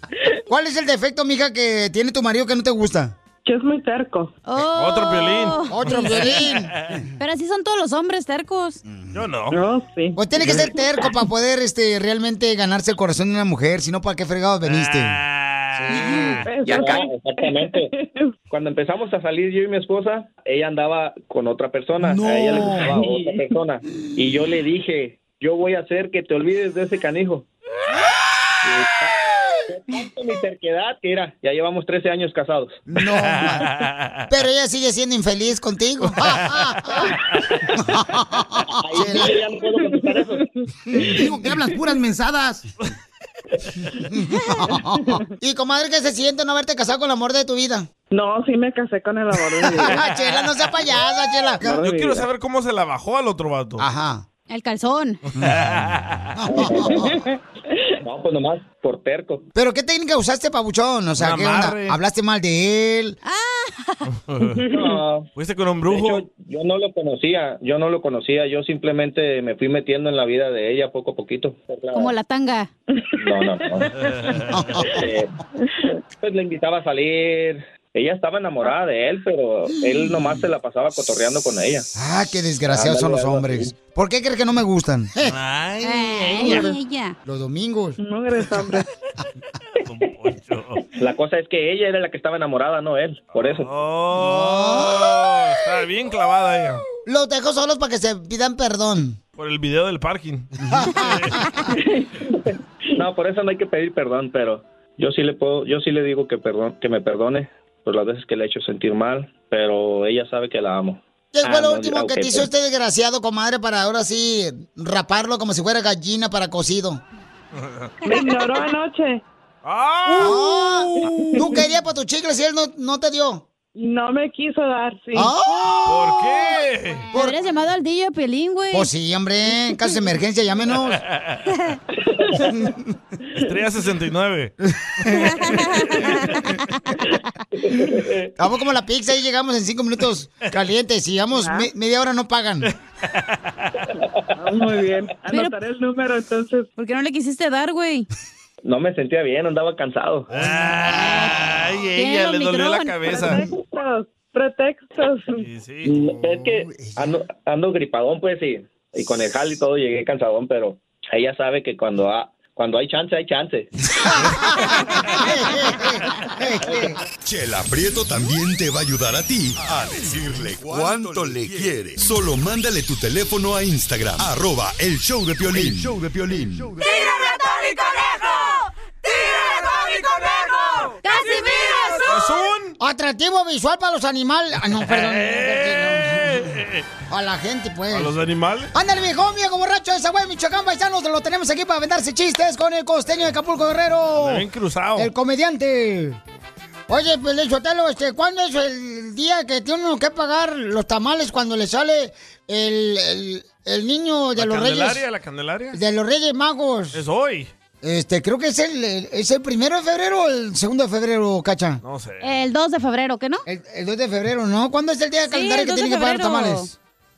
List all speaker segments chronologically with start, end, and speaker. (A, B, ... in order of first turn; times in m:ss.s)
0:00.5-0:03.1 A
0:03.4-0:04.4 B
0:04.5-0:06.5 C
0:04.7-0:06.3 D
0:05.7-0:06.8 A
0:07.2-0:08.8 C
0:08.9-0:09.2 A
0:09.1-0:09.6 D
0:09.5-0:11.0 B
0:10.2-0:15.2 A
0:14.6-0:16.5 D
0:15.8-0:16.4 A
0:16.4-0:18.3 B
0:16.6-0:17.9 E
0:18.5-0:27.5 E
0:22.0-0:22.9 A
0:22.6-0:23.5 B
0:28.6-0:32.8 E
0:32.9-0:33.7 A
0:33.0-0:34.2 D
0:34.3-0:37.1 A
0:36.1-0:36.7 D
0:37.8-0:39.4 A
0:38.8-0:40.4 E
0:39.8-0:40.5 B
0:40.9-0:41.3 A
0:44.1-0:47.9 A
0:45.0-0:45.3 B
0:48.1-0:50.0 B
0:49.7-0:51.8 A
0:51.6-0:52.3 B
0:51.8-0:53.9 D
0:53.8-0:54.2 A
0:54.5-0:55.2 C
0:55.4-0:56.4 D
0:56.4-0:57.1 A
0:56.5-0:57.2 E
0:57.0-0:57.4 B
0:58.0-0:59.5 E
0:59.6-1:03.2 A
1:01.2-1:02.0 D
1:03.2-1:04.1 C
1:04.3-1:04.6 D
1:04.5-1:05.0 B
1:04.7-1:05.3 E
1:05.4-1:06.2 D
1:05.9-1:12.1 E
1:11.9-1:12.7 C
1:13.2-1:13.9 E
1:14.0-1:14.7 D
1:14.5-1:14.9 A
1:14.9-1:15.4 E
1:16.2-1:21.9 E
1:19.7-1:20.5 A
1:22.0-1:25.4 A
1:22.7-1:23.7 E
1:25.2-1:26.6 D
1:25.8-1:27.2 C
1:26.4-1:26.8 B
1:27.2-1:28.0 A
1:28.0-1:28.9 B
1:29.8-1:30.8 D
1:31.0-1:33.7 E
1:33.4-1:36.8 D
1:34.2-1:35.5 A
1:37.0-1:39.2 A
1:39.4-1:41.5 D
1:40.6-1:41.7 A
1:43.0-1:52.5 E
1:51.3-1:57.0 A
1:57.6-1:57.9 D
1:58.0-1:59.2 B
1:59.6-2:01.4 D
2:00.2-2:03.4 A
2:01.0-2:01.6 B
2:03.8-2:05.4 B
2:05.1-2:06.5 A
2:05.8-2:07.1 D
2:07.1-2:07.4 A
2:07.1-2:08.9 C
2:08.7-2:11.0 A
2:11.1-2:11.4 D
2:12.5-2:12.8 A
2:13.4-2:14.5 D
2:15.0-2:15.5 A
2:15.3-2:16.6 C
2:18.4-2:22.7 A
2:21.4-2:21.7 B
2:22.6-2:23.7 D
2:24.4-2:26.7 B
2:25.3-2:25.5 C
2:26.8-2:28.1 C
2:28.6-2:30.3 E
2:30.3-2:33.4 D
2:30.8-2:31.4 A
2:31.0-2:31.4 C
2:32.0-2:33.2 C
2:33.1-2:35.5 B
2:35.4-2:36.0 D
2:35.9-2:43.7 E
2:36.2-2:37.2 A
2:44.0-2:47.0 A
2:46.6-2:47.0 E
2:47.2-2:56.8 F
2:56.8-2:58.4 C
3:01.0-3:02.2 C
3:02.0-3:02.8 D
3:02.8-3:08.2 A
3:04.8-3:06.9 D
3:07.9-3:08.7 D
3:08.7-3:14.4 A
3:14.2-3:15.1 D
3:15.0-3:16.2 A
3:16.9-3:25.0 A
3:24.4-3:25.8 D
3:25.7-3:27.0 A
3:26.9-3:27.5 D
3:27.8-3:31.8 A
3:31.8-3:32.3 D
3:32.2-3:33.4 C
3:33.5-3:36.8 A
3:35.3-3:36.7 C